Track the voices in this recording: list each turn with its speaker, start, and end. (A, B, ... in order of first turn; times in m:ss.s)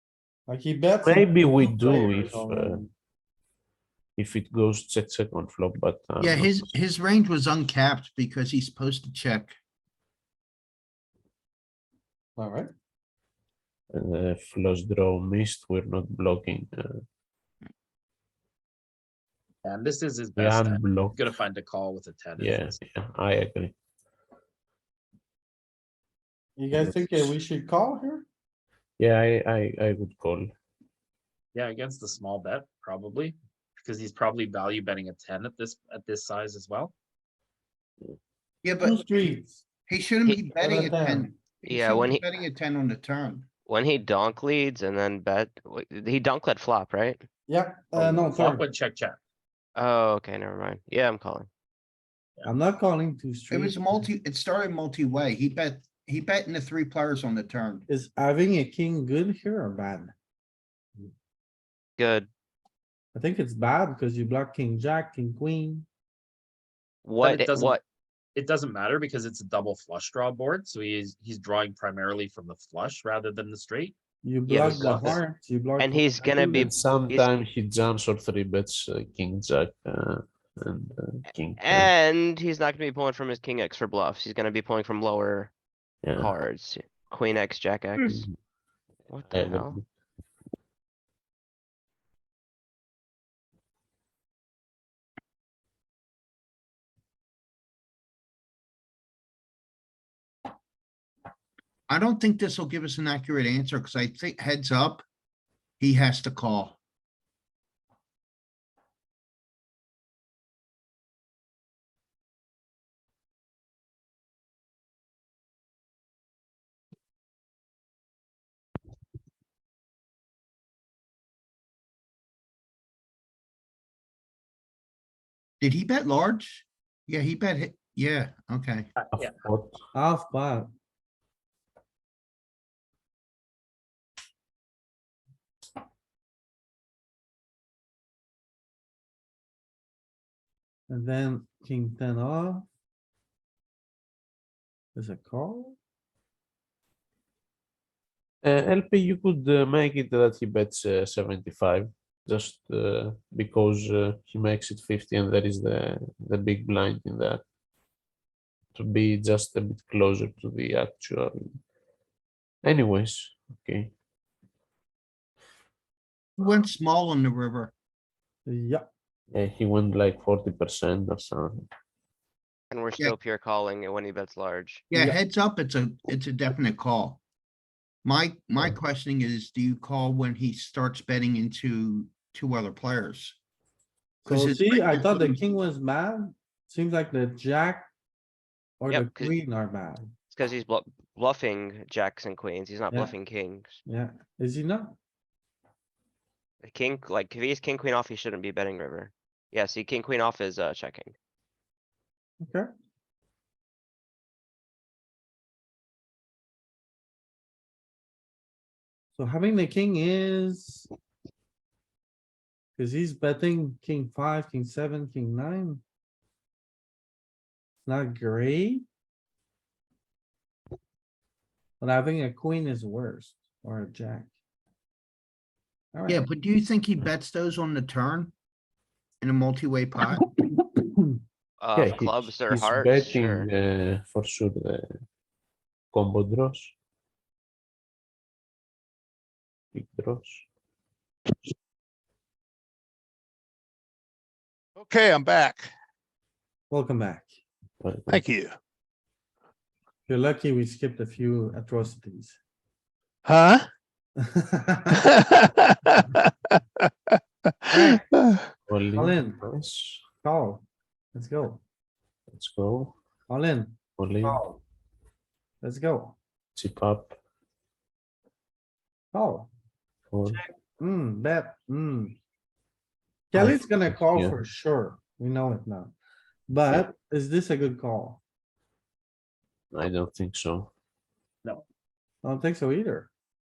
0:00.5-0:02.9 A
0:01.0-0:02.8 B
0:04.2-0:06.7 B
0:06.2-0:09.5 C
0:12.4-0:12.7 A
0:13.9-0:17.0 B
0:19.6-0:22.7 D
0:20.4-0:21.2 B
0:22.4-0:23.7 B
0:26.6-0:28.2 A
0:26.7-0:27.3 B
0:29.0-0:30.5 B
0:31.5-0:36.9 D
0:38.6-0:39.3 C
0:38.8-0:39.6 A
0:39.9-0:43.5 C
0:40.2-0:40.5 E
0:40.6-0:41.3 A
0:41.6-0:42.3 E
0:43.7-0:47.2 E
0:47.5-0:48.6 A
0:47.9-0:49.2 D
0:49.8-0:51.5 E
0:52.4-0:54.0 A
0:53.5-0:57.8 C
0:57.9-1:00.1 A
1:02.0-1:02.3 E
1:03.1-1:05.8 A
1:07.0-1:07.8 E
1:07.2-1:07.8 D
1:08.3-1:13.9 D
1:14.2-1:16.7 A
1:14.5-1:15.2 E
1:14.6-1:14.9 B
1:14.8-1:15.1 D
1:15.8-1:17.3 E
1:16.6-1:21.9 B
1:21.6-1:25.5 E
1:26.0-1:26.3 B
1:26.1-1:28.2 E
1:28.0-1:28.4 B
1:29.1-1:29.8 E
1:29.3-1:29.8 B
1:41.9-1:45.0 C
1:45.8-1:46.8 C
2:05.6-2:08.9 C
2:09.0-2:09.3 D
2:09.1-2:09.7 B
2:09.9-2:10.7 A
2:20.9-2:22.7 A
2:25.0-2:25.8 A
2:28.4-2:37.4 B
2:38.7-2:41.6 B
2:42.6-2:43.9 B
2:46.4-2:47.7 C
2:48.5-2:48.9 A
2:49.3-2:51.7 B
2:52.7-2:54.8 E
2:54.9-2:57.2 C
2:54.9-2:55.2 A
2:58.0-3:03.4 C
3:04.2-3:05.4 C
3:04.2-3:07.9 A
3:08.8-3:10.0 A
3:08.9-3:09.4 E
3:10.3-3:13.8 E
3:13.8-3:15.0 A
3:16.6-3:21.1 E
3:22.4-3:22.7 A
3:29.2-3:30.9 A
3:32.8-3:35.8 A
3:37.8-3:38.8 A
3:41.8-3:44.3 A
3:45.9-3:46.3 A
3:46.1-3:48.3 C
3:49.2-3:50.2 C
3:50.4-3:51.2 A
3:51.6-3:53.5 E
3:51.7-3:54.8 B
3:55.9-3:56.7 B
3:59.7-4:00.5 B
4:04.8-4:05.7 F
4:06.7-4:07.4 A
4:07.8-4:08.2 B
4:08.1-4:08.6 F
4:10.1-4:12.4 A
4:13.2-4:13.7 F
4:14.2-4:15.0 A
4:15.0-4:16.5 F
4:17.7-4:18.1 A
4:17.7-4:18.4 F
4:18.7-4:20.0 B
4:18.9-4:19.4 A
4:20.2-4:21.6 A
4:22.3-4:23.0 B
4:23.3-4:24.6 A
4:24.0-4:24.4 B
4:25.6-4:26.2 A
4:26.6-4:27.2 B
4:29.1-4:29.5 A
4:30.1-4:30.4 B
4:30.3-4:32.2 A
4:33.3-4:35.9 A
4:33.3-4:34.4 B
4:36.5-4:38.2 A
4:39.7-4:40.7 B
4:42.2-4:43.1 A